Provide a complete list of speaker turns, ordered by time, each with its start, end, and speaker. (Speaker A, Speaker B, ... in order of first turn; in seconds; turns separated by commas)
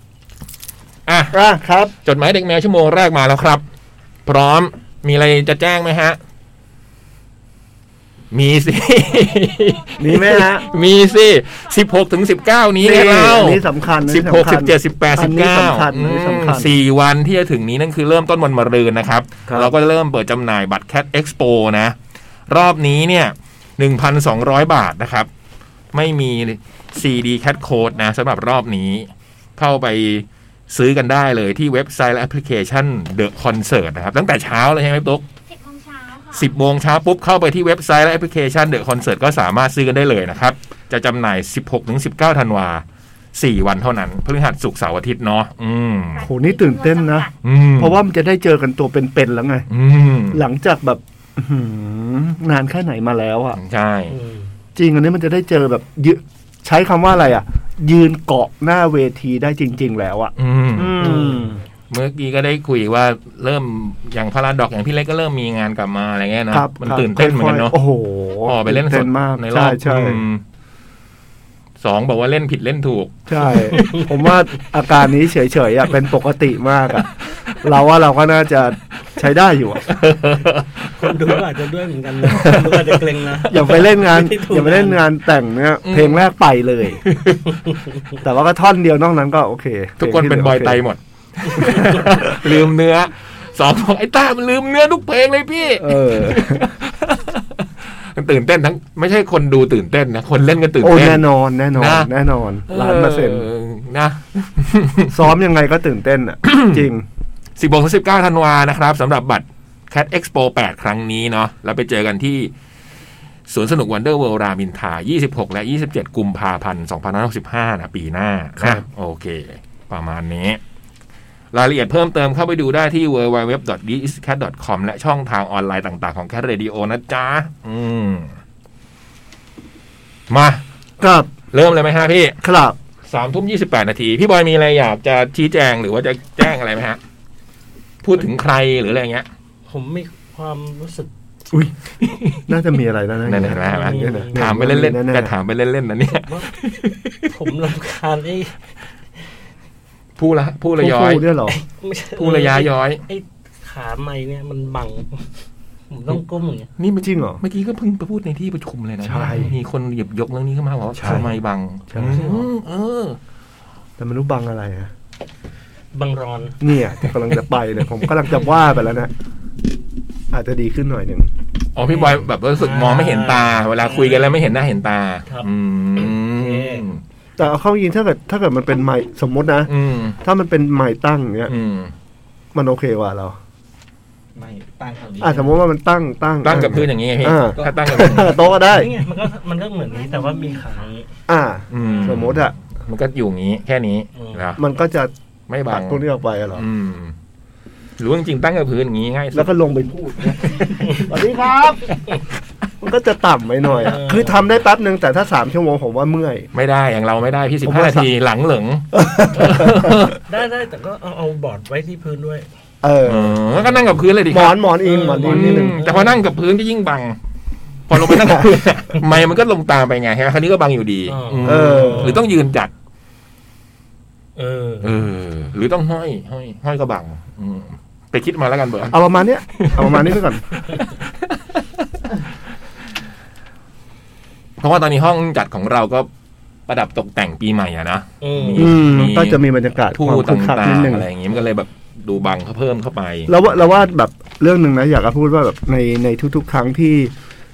Speaker A: 1.1-1.4, Speaker B: 1.3-1.9, Speaker A: 2.0-3.6, Speaker A: 4.3-6.2, Speaker A: 8.3-21.9, Speaker C: 9.1-12.7, Speaker B: 10.0-10.7, Speaker B: 12.8-16.7, Speaker B: 19.5-19.7, Speaker A: 22.5-25.3, Speaker A: 25.9-35.2, Speaker C: 35.5-36.5, Speaker A: 36.4-42.8, Speaker A: 43.4-46.2, Speaker C: 46.1-47.3, Speaker B: 46.2-47.3, Speaker A: 47.4-48.0, Speaker B: 47.8-49.7, Speaker A: 49.7-50.4, Speaker B: 50.3-53.6, Speaker A: 53.6-54.1, Speaker D: 54.1-54.5, Speaker B: 54.8-61.6, Speaker A: 60.4-61.3, Speaker D: 61.0-61.5, Speaker A: 61.9-67.8, Speaker B: 66.5-70.2, Speaker A: 68.5-70.4, Speaker A: 71.8-74.3, Speaker B: 73.3-79.9, Speaker D: 73.7-74.0, Speaker A: 79.9-81.4, Speaker D: 81.0-85.0, Speaker A: 83.5-83.9, Speaker B: 83.5-87.0, Speaker A: 85.8-86.2, Speaker A: 87.0-87.6, Speaker D: 87.7-88.0, Speaker B: 88.2-90.8, Speaker A: 90.0-101.2, Speaker B: 95.8-96.7, Speaker B: 100.8-103.5, Speaker A: 101.8-102.1, Speaker A: 102.7-105.2, Speaker B: 105.1-107.1, Speaker A: 106.4-106.9, Speaker A: 107.6-112.5, Speaker A: 113.5-120.6, Speaker B: 118.6-118.8, Speaker A: 121.5-128.4, Speaker A: 130.3-130.6, Speaker B: 131.0-131.3, Speaker A: 131.5-132.4, Speaker B: 132.4-132.8, Speaker A: 133.1-137.0, Speaker A: 138.0-139.3, Speaker D: 139.7-141.1, Speaker A: 142.0-142.4, Speaker B: 142.5-145.3, Speaker A: 143.2-147.3, Speaker D: 143.6-144.4, Speaker D: 146.1-148.6, Speaker A: 150.2-151.3, Speaker B: 150.8-151.6, Speaker D: 151.5-155.3, Speaker A: 152.2-153.0, Speaker D: 155.9-156.7, Speaker A: 156.8-163.2, Speaker B: 157.0-157.4, Speaker B: 159.0-159.5, Speaker B: 161.0-161.3, Speaker B: 161.9-162.4, Speaker B: 164.0-164.9, Speaker D: 165.9-166.6, Speaker B: 166.6-169.1, Speaker B: 170.3-171.3, Speaker A: 171.8-177.0, Speaker D: 171.9-174.4, Speaker D: 175.3-176.8, Speaker B: 177.4-181.6, Speaker A: 179.7-180.2, Speaker A: 181.5-181.9, Speaker B: 182.5-183.4, Speaker E: 184.3-185.6, Speaker B: 185.2-188.9, Speaker A: 186.4-188.4, Speaker E: 187.5-188.5, Speaker D: 188.7-191.1, Speaker C: 189.9-190.8, Speaker B: 191.3-192.5, Speaker A: 191.7-194.6, Speaker D: 191.8-192.1, Speaker D: 194.2-194.4, Speaker B: 194.6-195.1, Speaker A: 195.5-197.1, Speaker B: 195.7-196.7, Speaker A: 198.0-199.5, Speaker B: 199.3-201.9, Speaker A: 200.4-201.0, Speaker D: 200.8-201.1, Speaker B: 202.8-206.5, Speaker D: 203.7-204.4, Speaker A: 206.5-210.2, Speaker B: 207.7-208.1, Speaker B: 208.9-210.0, Speaker D: 210.3-212.5, Speaker B: 212.8-213.4, Speaker A: 213.1-217.2, Speaker D: 213.6-214.0, Speaker B: 214.3-215.8, Speaker D: 214.8-216.2, Speaker A: 217.9-222.7, Speaker B: 218.0-218.5, Speaker D: 221.1-222.3, Speaker B: 221.4-222.2, Speaker D: 224.4-225.0, Speaker A: 224.8-229.0, Speaker B: 228.9-230.4, Speaker A: 229.6-231.6, Speaker A: 234.6-236.1, Speaker A: 236.7-243.6, Speaker D: 238.2-238.8, Speaker B: 238.6-241.1, Speaker B: 243.3-247.1